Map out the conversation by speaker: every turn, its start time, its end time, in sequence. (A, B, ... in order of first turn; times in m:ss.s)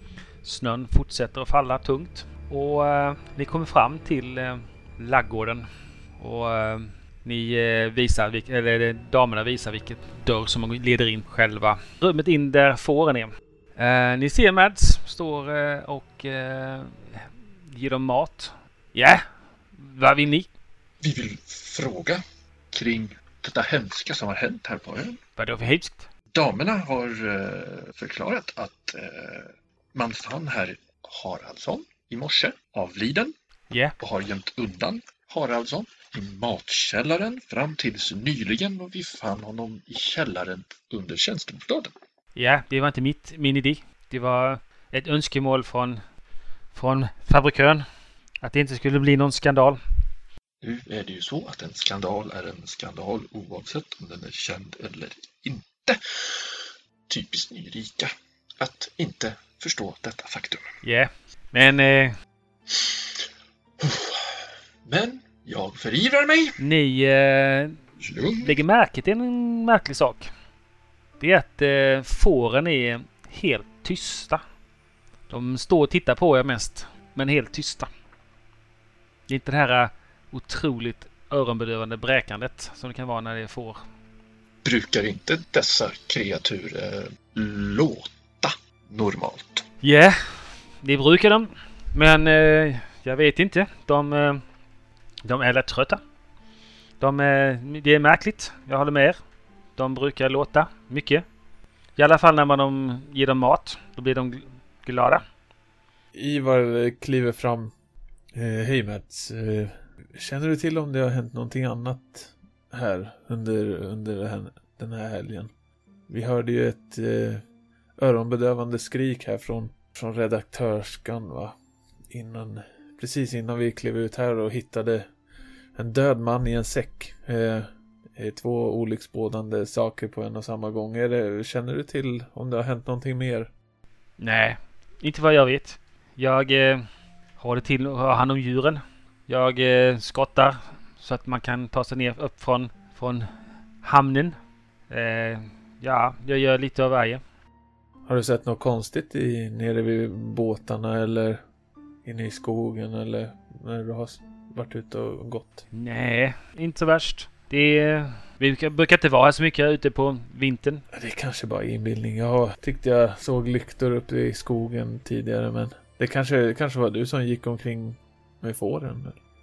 0:00.4-0:20.5 A
0:21.0-0:25.2 B
0:25.4-0:26.1 A
0:26.3-0:33.3 B
0:33.7-0:33.9 A
0:34.0-0:41.9 B
0:42.4-0:46.0 A
0:46.7-0:47.8 A
0:48.4-0:49.8 A
0:50.6-0:56.5 B
0:57.1-1:00.7 B
1:00.8-1:02.2 A
1:02.7-1:03.0 B
1:03.8-1:04.3 B
1:04.8-1:06.6 B
1:06.6-1:07.8 A
1:08.0-1:08.5 B
1:08.4-1:10.3 A
1:11.2-1:14.4 A
1:15.3-1:17.9 A
1:19.3-1:23.8 A
1:24.6-1:29.6 B
1:29.8-1:34.4 A
1:35.2-1:36.0 A
1:37.0-1:39.2 A
1:39.8-1:41.2 A
1:42.0-1:45.2 A
1:46.1-1:47.7 C
1:48.3-1:55.5 C
1:56.1-1:57.4 C
1:58.0-2:01.5 C
2:02.1-2:05.1 C
2:05.8-2:13.5 C
2:14.2-2:23.3 A
2:23.8-2:24.4 A
2:24.9-2:27.2 A
2:28.1-2:31.4 C
2:32.0-2:35.6 C
2:35.7-2:40.8 A
2:40.9-2:49.2 C